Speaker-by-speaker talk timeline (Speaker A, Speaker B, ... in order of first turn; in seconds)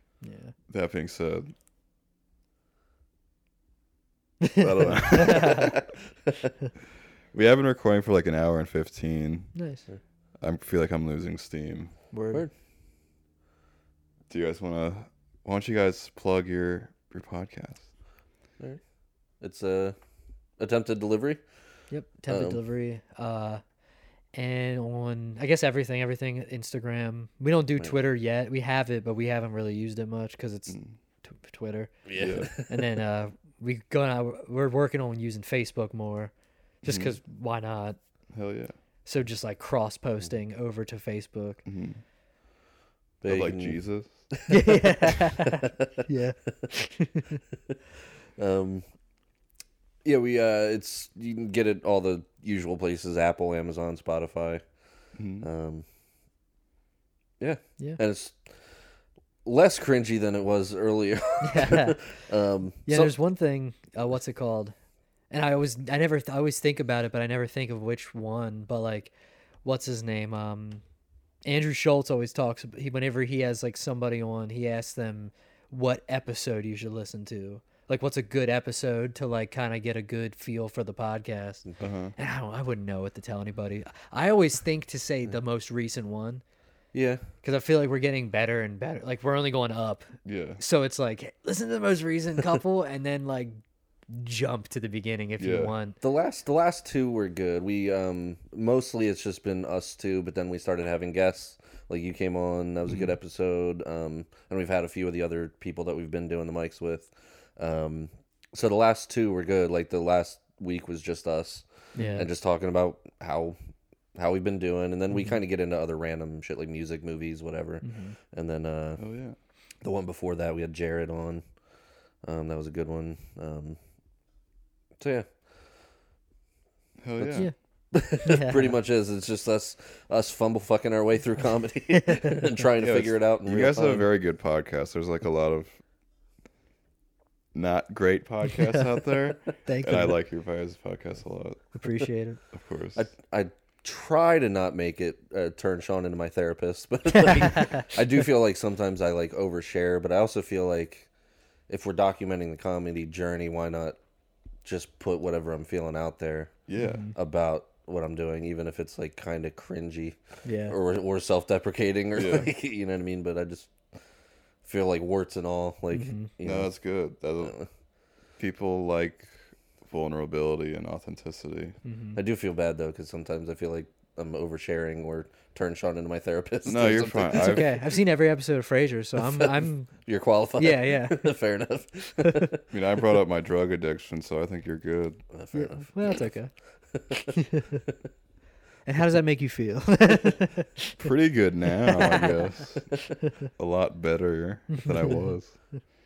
Speaker A: 0.2-0.5, 4.4-5.7, 9.6-9.8, 12.1-12.4, 21.9-23.6, 24.4-38.0, 39.0-41.6, 44.5-47.4, 61.4-62.0, 62.9-64.8, 65.3-69.1, 69.6-70.8, 71.5-81.7, 82.2-86.4, 87.4-96.0, 112.0-112.3, 115.1-115.4, 117.8-118.2, 128.2-128.8, 132.0-132.4, 138.6-139.0, 139.6-140.2, 141.7-142.4, 147.1-147.9, 156.8-157.1, 160.4-160.8, 165.9-166.3, 171.8-172.2, 177.3-179.9, 180.6-181.3, 185.5-186.5, 187.4-187.8, 188.9-191.0, 192.0-192.3, 194.7-195.3
Speaker B: 0.7-1.5, 4.5-5.8, 7.3-9.5, 10.4-11.9, 14.3-17.9, 30.7-30.9, 32.2-32.5, 36.9-37.2, 38.3-38.7, 41.6-42.0, 43.2-44.3, 55.2-55.5, 81.8-82.2, 90.2-90.6, 95.4-95.7, 102.9-103.2, 119.0-119.4, 127.0-127.5, 132.8-135.8, 137.5-141.7, 142.5-143.1, 156.7-157.1, 162.2-162.5, 166.4-167.6, 168.4-171.8, 176.7-177.8, 182.7-185.2, 191.0-193.0, 193.5-195.6
Speaker C: 5.4-5.8, 19.4-19.9, 20.6-21.4, 22.3-22.6, 32.0-32.8, 43.2-45.9, 48.4-48.9, 50.0-54.6, 55.4-55.9, 57.4-58.6, 59.5-63.2, 86.9-87.3, 96.0-113.6, 114.2-119.0, 119.8-121.5, 122.2-123.8, 125.0-125.5, 127.9-134.1, 142.9-151.1, 151.7-154.0, 154.6-164.0, 164.6-166.7, 167.4-167.7, 172.2-177.8, 179.3-182.6, 185.3-186.3, 186.9-187.3